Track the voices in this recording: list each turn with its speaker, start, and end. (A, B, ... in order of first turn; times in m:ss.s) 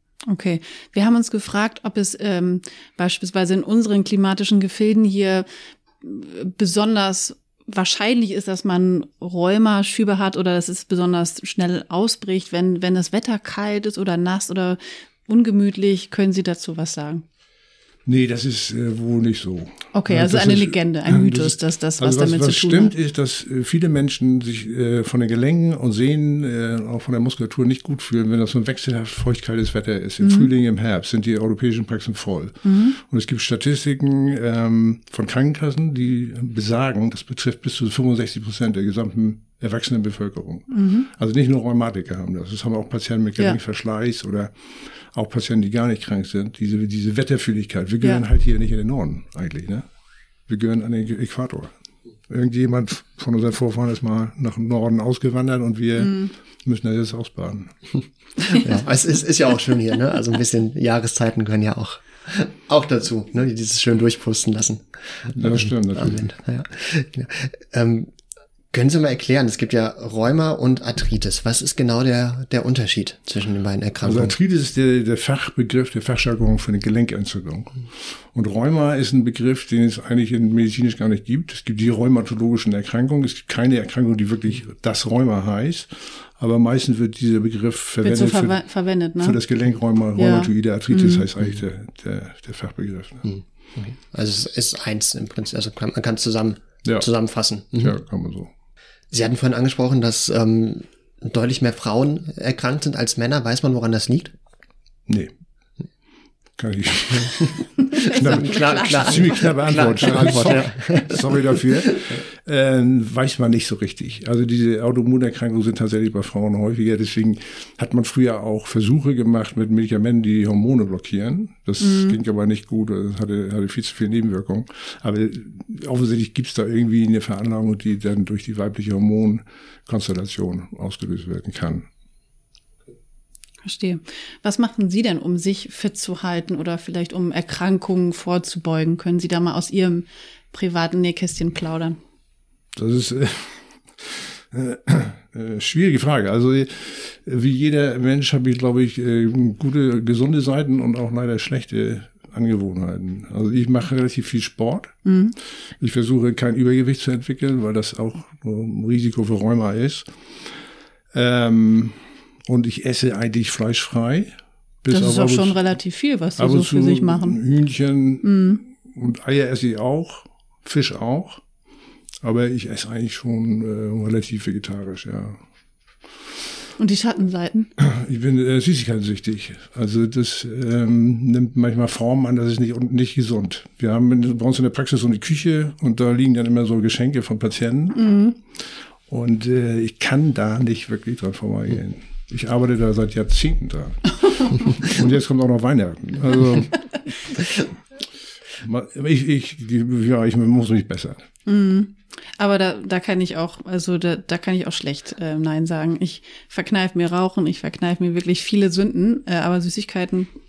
0:00.3-0:05.4 A
0:06.0-0:17.2 A
0:18.0-0:49.8 B
0:19.9-0:22.9 A
0:30.2-0:30.5 A
0:32.6-0:33.0 A
0:40.7-0:41.1 A
0:50.5-0:51.7 B
0:52.3-0:58.0 B
0:56.0-0:56.3 A
0:58.5-1:08.1 C
1:05.3-1:06.3 B
1:08.7-1:14.4 C
1:14.0-1:28.6 B
1:28.0-1:29.4 A
1:29.2-1:33.3 B
1:30.2-1:31.2 A
1:33.2-1:37.9 C
1:37.7-1:38.5 B
1:39.1-1:44.3 C
1:45.1-1:45.3 B
1:46.6-2:11.8 B
1:47.8-1:49.4 A
1:48.2-1:52.2 C
1:50.0-1:50.3 A
2:01.8-2:02.2 A
2:13.6-2:22.0 A
2:22.7-2:35.0 B
2:35.0-2:35.3 A
2:35.8-2:40.6 B
2:41.1-2:45.6 B
2:44.9-2:47.4 A
2:46.4-2:51.4 B
2:48.2-2:48.6 A
2:52.2-2:55.4 B
2:56.8-2:57.7 A
2:57.8-3:08.1 B
3:07.9-3:08.4 A
3:09.1-3:17.6 B
3:18.6-3:21.2 B
3:21.4-3:30.3 A